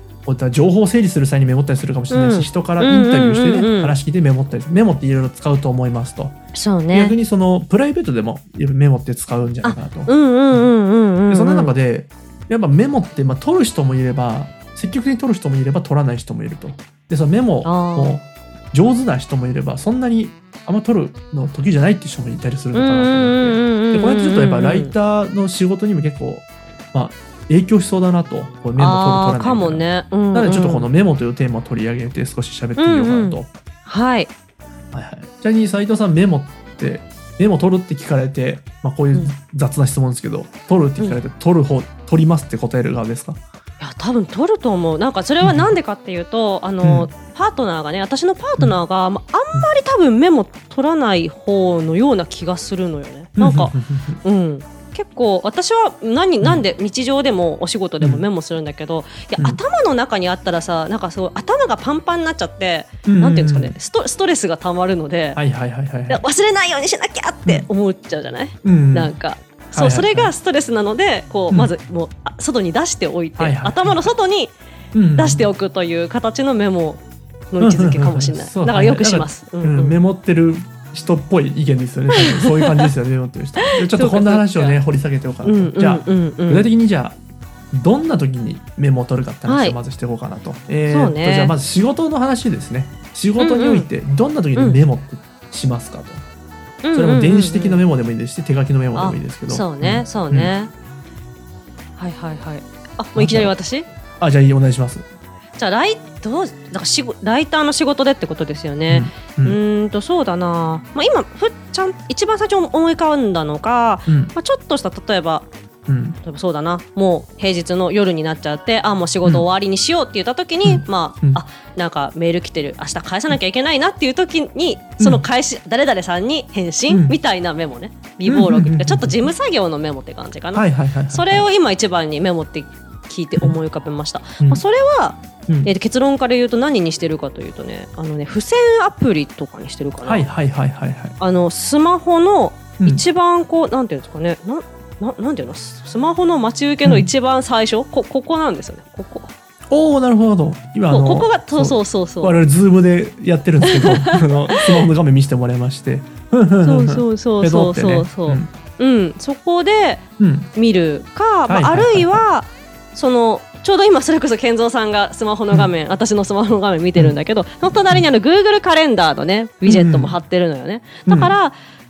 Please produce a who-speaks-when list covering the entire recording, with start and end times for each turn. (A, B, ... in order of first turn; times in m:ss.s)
0:00.3-0:06.4 A
0:02.1-0:04.0 B
0:06.5-0:07.2 B
0:06.9-0:10.7 A
0:09.6-0:11.8 B
0:11.3-0:33.5 A
0:17.6-0:18.2 B
0:22.7-0:24.9 B
0:28.8-0:30.9 B
0:32.8-0:34.3 B
0:34.9-0:43.4 A
0:43.8-1:05.4 B
0:45.4-0:45.7 A
0:46.8-0:47.1 A
0:53.4-0:54.2 A
1:03.0-1:03.8 A
1:05.4-1:06.2 A
1:06.1-1:14.6 B
1:08.6-1:09.1 A
1:09.7-1:10.3 A
1:13.4-1:14.0 A
1:14.9-1:15.5 A
1:15.2-1:20.0 B
1:17.6-1:27.2 A
1:22.2-1:22.9 B
1:23.6-1:24.8 B
1:25.4-1:26.7 B
1:27.7-1:36.2 A
1:29.5-1:29.8 B
1:30.9-1:31.6 B
1:33.4-1:33.9 B
1:36.8-1:37.8 B
1:36.9-1:40.5 A
1:39.0-1:40.7 B
1:42.0-1:43.9 B
1:43.2-1:43.5 A
1:44.2-1:45.1 A
1:45.6-1:55.5 B
1:48.9-1:49.6 A
1:54.1-1:54.3 A
1:55.9-1:56.2 A
1:56.2-2:20.3 B
2:00.6-2:01.4 A
2:05.0-2:05.2 A
2:06.9-2:07.2 A
2:08.3-2:09.2 A
2:10.5-2:11.5 A
2:15.5-2:15.7 A
2:20.0-2:21.2 A
2:21.2-2:29.3 B
2:22.8-2:23.0 A
2:26.8-2:27.1 A
2:29.7-2:38.5 A
2:30.9-2:32.4 B
2:33.7-2:34.8 B
2:36.6-2:51.6 B
2:40.2-2:40.5 A
2:41.5-2:42.2 A
2:49.6-2:50.1 A
2:51.1-2:51.3 A